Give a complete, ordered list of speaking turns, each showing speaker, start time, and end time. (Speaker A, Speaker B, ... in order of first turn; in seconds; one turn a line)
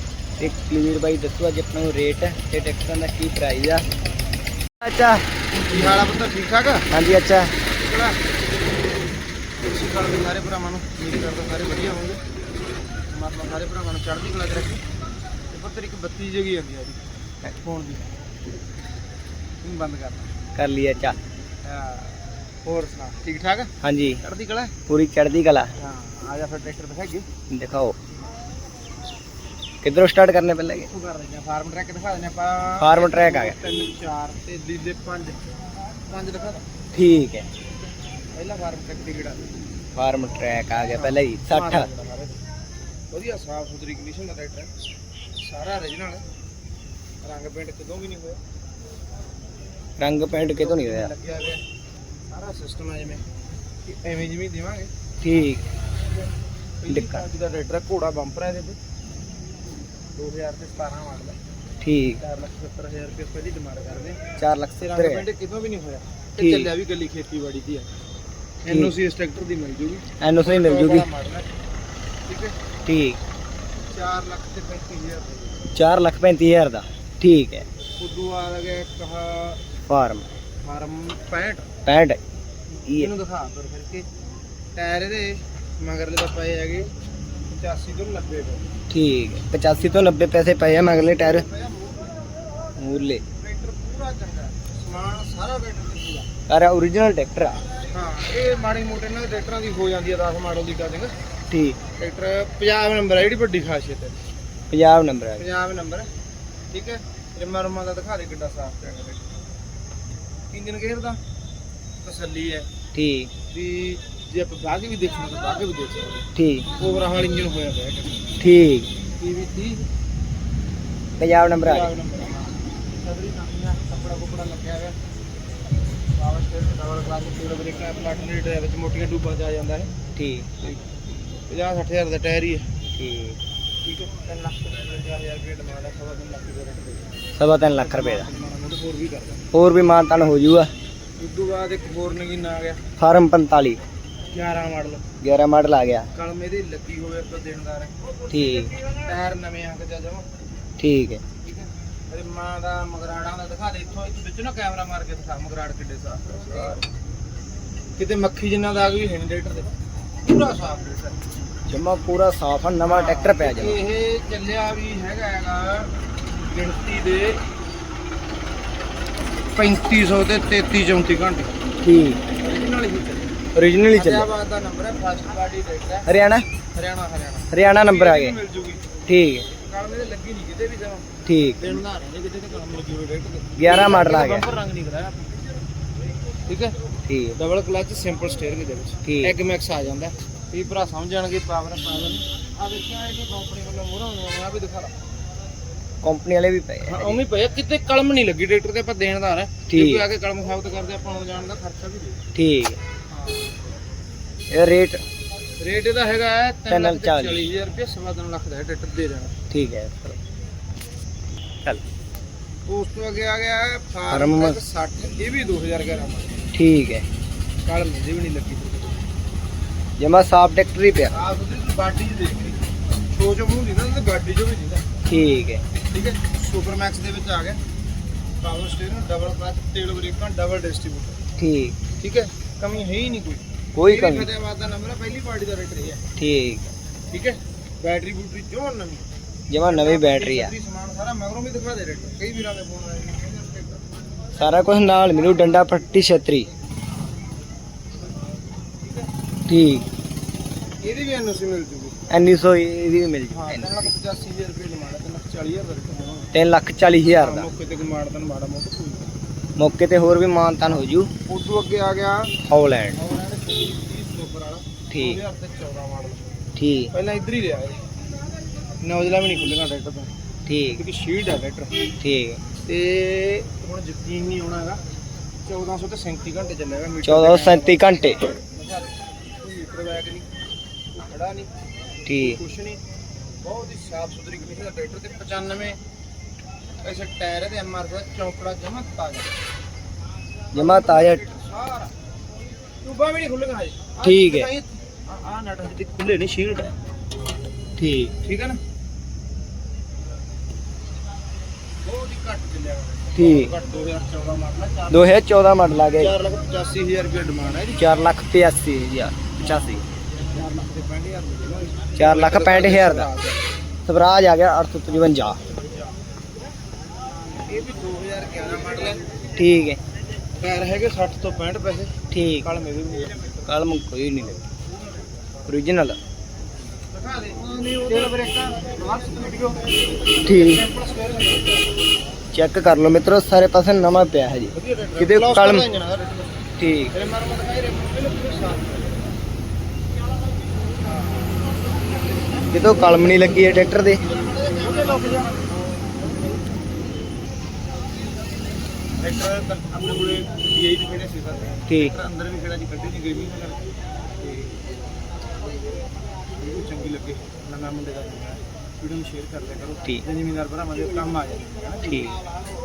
Speaker A: 0.4-3.8
Speaker A: 4.8-5.3
Speaker B: 5.6-6.9
Speaker A: 6.9-7.5
Speaker B: 7.6-8.2
Speaker B: 9.6-12.2
Speaker B: 13.1-14.8
Speaker B: 15.5-18.1
Speaker B: 19.6-20.3
Speaker A: 20.6-21.2
Speaker B: 21.6-24.7
Speaker A: 23.8-24.2
Speaker A: 24.9-25.7
Speaker B: 25.8-27.2
Speaker A: 27.5-27.9
Speaker A: 29.8-30.9
Speaker B: 30.8-35.4
Speaker A: 32.8-33.5
Speaker B: 36.1-36.6
Speaker A: 36.9-37.5
Speaker B: 38.3-39.5
Speaker A: 40.0-41.9
Speaker B: 40.9-42.4
Speaker B: 43.1-44.7
Speaker B: 45.4-46.2
Speaker B: 47.2-48.4
Speaker A: 50.0-51.1
Speaker B: 50.5-51.6
Speaker B: 52.3-53.2
Speaker B: 53.8-54.9
Speaker A: 55.2-55.6
Speaker B: 56.8-58.8
Speaker A: 56.9-57.2
Speaker B: 60.1-61.4
Speaker A: 61.8-62.2
Speaker B: 62.1-64.2
Speaker A: 64.4-65.2
Speaker B: 64.8-67.9
Speaker A: 66.4-66.7
Speaker B: 68.6-71.5
Speaker A: 68.7-68.9
Speaker A: 70.2-71.1
Speaker B: 72.2-72.6
Speaker A: 72.8-73.2
Speaker B: 73.9-75.7
Speaker A: 75.7-77.7
Speaker B: 78.0-79.6
Speaker A: 79.9-80.3
Speaker B: 80.6-81.7
Speaker A: 81.8-82.2
Speaker B: 82.7-84.1
Speaker B: 84.7-86.9
Speaker B: 87.5-88.7
Speaker A: 88.9-91.4
Speaker B: 90.8-92.2
Speaker A: 92.8-93.2
Speaker B: 93.4-96.3
Speaker A: 96.5-97.6
Speaker B: 97.9-101.1
Speaker A: 101.5-101.8
Speaker B: 102.0-104.2
Speaker A: 104.7-105.4
Speaker B: 105.4-106.1
Speaker B: 106.7-109.3
Speaker B: 110.5-111.2
Speaker B: 112.0-112.7
Speaker A: 112.9-113.3
Speaker B: 113.5-118.2
Speaker A: 116.3-116.7
Speaker A: 118.4-118.9
Speaker B: 119.2-119.8
Speaker A: 121.2-121.9
Speaker B: 121.6-125.0
Speaker B: 126.1-129.9
Speaker A: 130.1-130.5
Speaker B: 130.6-130.9
Speaker B: 131.5-132.7
Speaker A: 133.0-133.4
Speaker B: 133.8-137.1
Speaker A: 137.4-138.3
Speaker B: 137.7-139.4
Speaker A: 139.5-140.7
Speaker B: 141.2-142.8
Speaker A: 143.0-143.8
Speaker B: 144.3-145.0
Speaker A: 145.2-146.1
Speaker B: 146.1-148.1
Speaker A: 148.3-148.7
Speaker B: 148.8-150.3
Speaker A: 150.8-151.2
Speaker B: 151.4-156.8
Speaker B: 158.0-161.2
Speaker A: 161.7-163.8
Speaker B: 162.8-167.4
Speaker B: 169.5-171.5
Speaker A: 171.8-172.2
Speaker B: 172.4-173.3
Speaker A: 173.5-174.3
Speaker B: 173.9-176.1
Speaker A: 176.1-176.4
Speaker B: 176.7-178.9
Speaker A: 177.5-178.3
Speaker A: 179.1-179.5
Speaker B: 179.5-185.5
Speaker A: 181.2-181.8
Speaker A: 183.6-184.5
Speaker B: 186.5-186.8
Speaker A: 187.1-187.4
Speaker B: 187.3-194.9
Speaker A: 189.0-189.3
Speaker A: 196.0-197.2
Speaker B: 196.8-202.2
Speaker A: 199.7-200.0
Speaker A: 202.3-202.8
Speaker B: 203.1-203.6
Speaker A: 204.5-205.0
Speaker B: 205.6-209.3
Speaker A: 206.7-207.4
Speaker A: 209.5-210.2
Speaker B: 212.7-216.4
Speaker A: 214.1-214.6
Speaker A: 216.5-217.1
Speaker B: 217.6-219.0
Speaker A: 220.0-221.2
Speaker B: 221.1-224.8
Speaker A: 225.1-225.6
Speaker B: 225.9-227.6
Speaker B: 228.4-231.2
Speaker A: 231.4-231.8
Speaker B: 232.0-236.0
Speaker A: 233.7-234.3
Speaker A: 236.2-236.7
Speaker B: 237.1-239.1
Speaker A: 239.5-240.5
Speaker B: 239.6-243.8
Speaker A: 244.3-246.5
Speaker A: 249.5-249.9
Speaker B: 250.8-252.0
Speaker A: 252.1-253.9
Speaker B: 253.3-256.3
Speaker A: 256.3-257.5
Speaker B: 257.0-259.1
Speaker A: 259.6-261.1
Speaker B: 261.2-262.3
Speaker A: 262.4-263.0
Speaker B: 262.9-266.2
Speaker A: 264.9-265.2
Speaker A: 266.6-266.9
Speaker B: 266.9-267.9
Speaker B: 268.8-270.1
Speaker A: 270.4-270.8
Speaker B: 270.7-271.8
Speaker A: 272.0-272.4
Speaker B: 272.6-274.8
Speaker B: 275.4-280.3
Speaker A: 277.0-278.2
Speaker B: 280.9-281.5
Speaker A: 282.1-282.4
Speaker B: 282.1-282.8
Speaker B: 283.4-285.8
Speaker B: 286.8-289.3
Speaker A: 290.5-291.2
Speaker B: 290.5-291.9
Speaker B: 292.8-296.7
Speaker A: 294.0-294.5
Speaker A: 297.8-298.1
Speaker B: 298.2-298.6
Speaker B: 301.8-305.1
Speaker A: 303.1-303.5
Speaker A: 304.9-306.1
Speaker B: 306.0-307.9
Speaker A: 307.8-309.8
Speaker B: 309.4-313.5
Speaker A: 311.9-313.1
Speaker A: 313.9-315.4
Speaker B: 315.5-315.9
Speaker B: 317.4-319.1
Speaker A: 319.4-319.8
Speaker B: 320.4-323.6
Speaker A: 322.1-322.5
Speaker A: 323.5-324.4
Speaker A: 325.5-326.0
Speaker B: 326.9-331.7
Speaker A: 327.5-328.1
Speaker A: 330.2-330.6
Speaker A: 332.3-335.6
Speaker B: 334.5-339.1
Speaker A: 336.6-336.9
Speaker B: 340.7-341.7
Speaker A: 342.5-344.0
Speaker B: 344.0-346.2
Speaker B: 349.0-353.6
Speaker A: 351.7-351.9
Speaker B: 354.2-354.6
Speaker B: 356.4-362.1
Speaker A: 361.9-362.2